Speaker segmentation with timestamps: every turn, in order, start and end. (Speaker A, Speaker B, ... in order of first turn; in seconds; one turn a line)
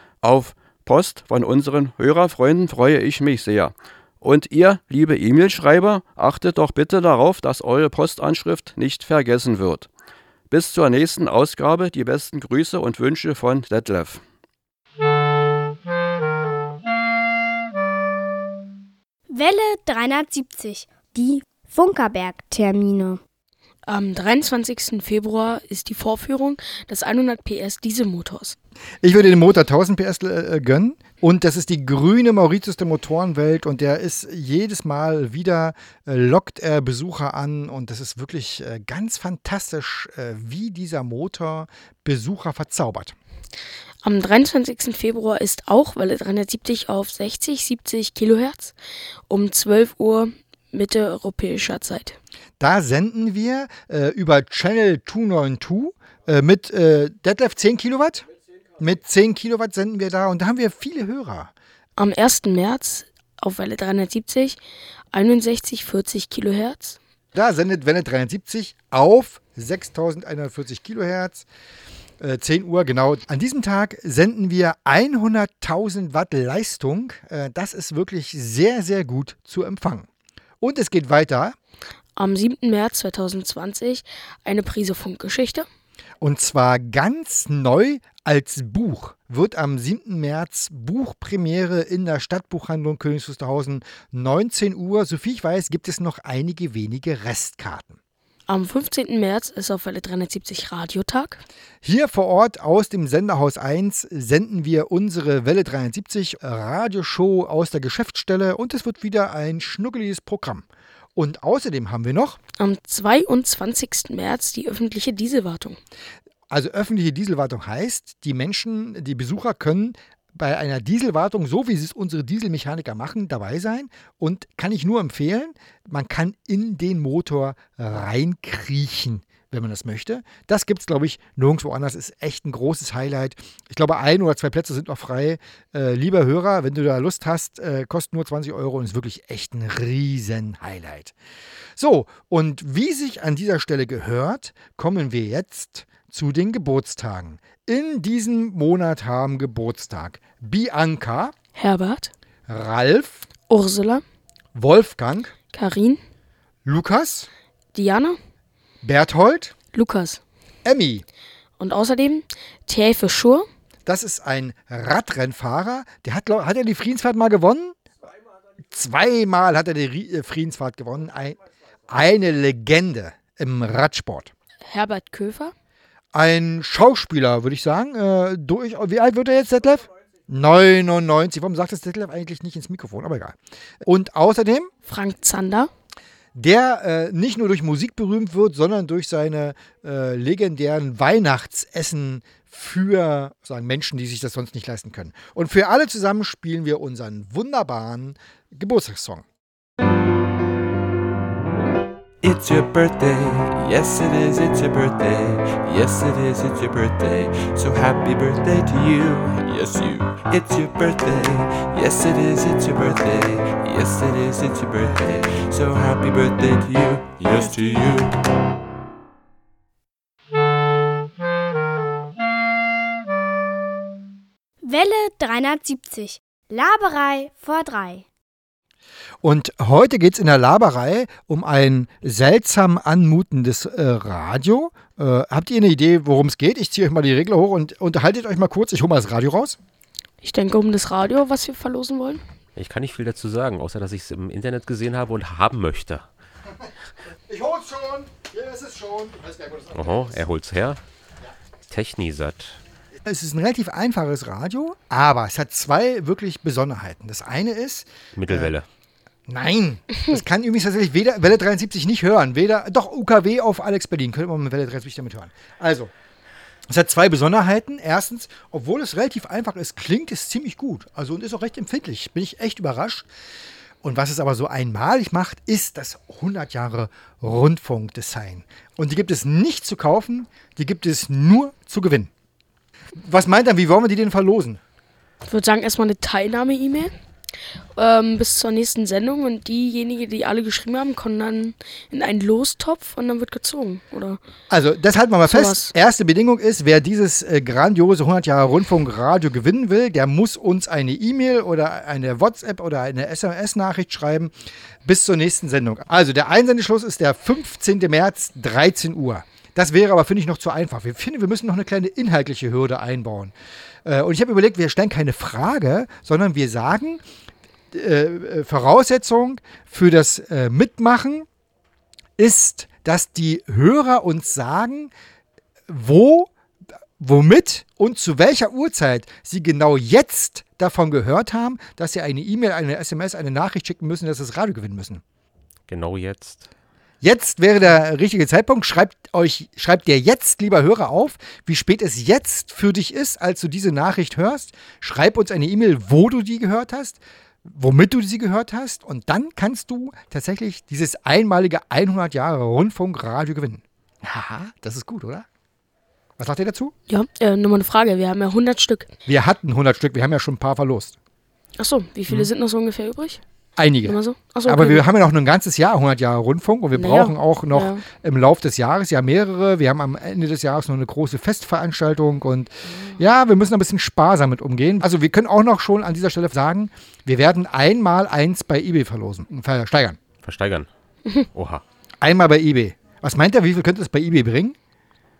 Speaker A: 0.2-9.9
Speaker A: 10.5-14.2
Speaker B: 19.3-23.2
Speaker C: 23.9-28.6
Speaker D: 29.0-43.1
Speaker C: 44.0-48.7
Speaker C: 49.3-52.2
Speaker D: 52.6-58.2
Speaker D: 58.8-61.5
Speaker C: 62.0-64.6
Speaker C: 65.1-67.0
Speaker D: 67.3-71.5
Speaker D: 72.2-80.1
Speaker D: 80.6-81.5
Speaker C: 82.2-85.7
Speaker D: 86.2-98.0
Speaker C: 98.5-101.4
Speaker D: 101.8-112.4
Speaker C: 112.6-115.8
Speaker D: 116.5-141.1
Speaker D: 141.8-151.3
Speaker C: 151.6-152.1
Speaker D: 152.5-153.3
Speaker C: 153.5-154.0
Speaker D: 154.5-155.3
Speaker C: 155.5-156.0
Speaker D: 156.6-157.3
Speaker C: 157.7-158.2
Speaker D: 158.8-159.5
Speaker C: 159.7-160.2
Speaker D: 160.6-161.0
Speaker C: 161.6-163.5
Speaker D: 163.8-167.8
Speaker D: 168.6-174.3
Speaker C: 174.7-175.5
Speaker D: 176.1-184.7
Speaker C: 184.8-185.7
Speaker D: 186.3-199.2
Speaker E: 202.2-218.1
Speaker B: 224.6-228.0
Speaker D: 229.2-239.6
Speaker C: 240.2-242.2
Speaker F: 242.6-246.1
Speaker D: 247.3-250.1
Speaker F: 249.7-250.8
Speaker F: 251.7-252.6
Speaker D: 253.0-258.5
Speaker F: 258.1-258.6
Speaker D: 259.3-265.9
Speaker D: 266.7-273.1
Speaker D: 273.8-282.1
Speaker D: 283.0-284.6
Speaker C: 285.2-286.9
Speaker C: 287.8-294.2
Speaker D: 294.5-304.3
Speaker C: 295.3-295.7
Speaker D: 304.8-317.0
Speaker D: 317.7-321.3
Speaker D: 322.2-324.9
Speaker D: 325.7-326.3
Speaker D: 327.0-335.0
Speaker F: 335.7-336.5
Speaker D: 337.0-355.3
Speaker D: 356.2-356.7
Speaker C: 356.9-358.9
Speaker D: 359.1-361.0
Speaker C: 361.6-363.2
Speaker D: 363.6-380.0
Speaker C: 363.8-364.8
Speaker C: 366.7-367.8
Speaker F: 380.2-380.7
Speaker F: 381.3-381.6
Speaker D: 382.0-384.6